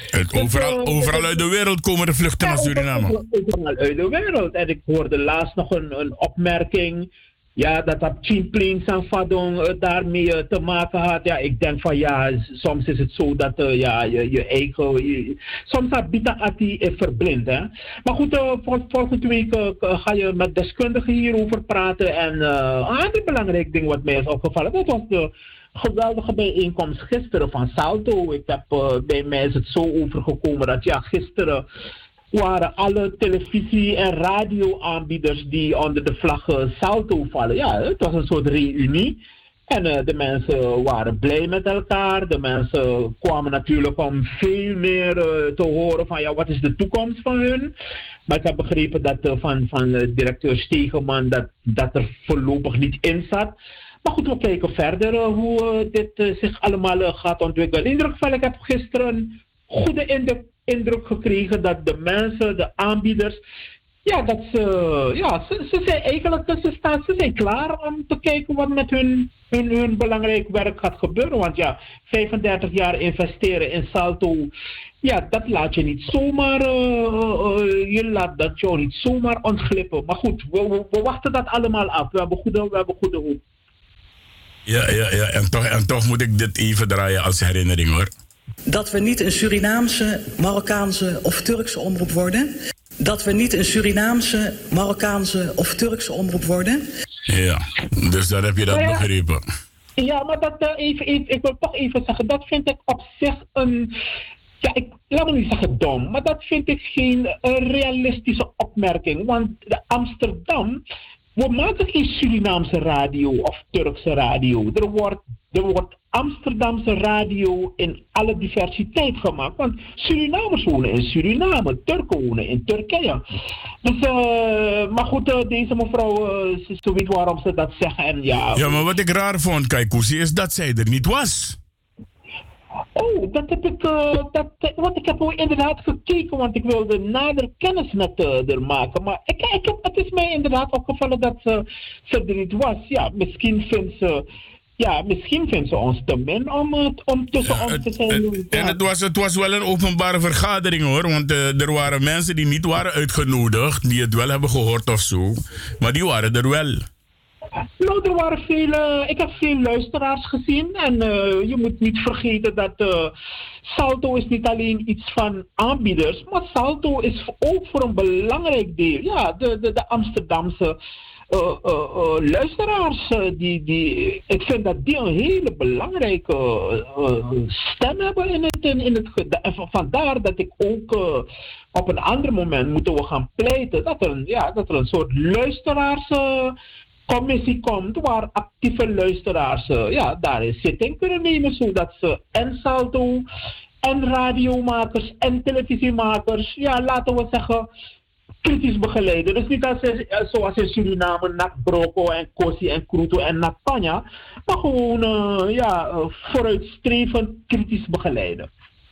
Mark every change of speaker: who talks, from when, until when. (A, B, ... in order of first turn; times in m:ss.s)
0:00.2-0:03.1 A
0:00.4-0:01.4 B
0:02.4-0:31.6 B
0:32.3-0:47.7 B
0:48.3-1:03.4 B
1:04.0-1:14.5 B
1:15.0-1:23.4 B
1:24.7-1:28.1 A
1:28.7-1:36.8 C
1:37.3-1:39.4 A
1:38.7-1:39.0 B
1:40.0-1:43.9 B
1:44.6-1:50.8 B
1:51.4-2:03.2 B
2:03.8-2:08.8 B
2:08.6-2:11.6 A
2:13.0-2:24.2 B
2:24.8-2:28.8 B
2:27.5-2:36.8 A
2:37.8-2:43.1 B
2:43.7-2:50.8 B
2:51.3-3:06.5 B
3:07.1-3:13.2 B
3:13.8-3:17.7 B
3:18.4-3:28.5 B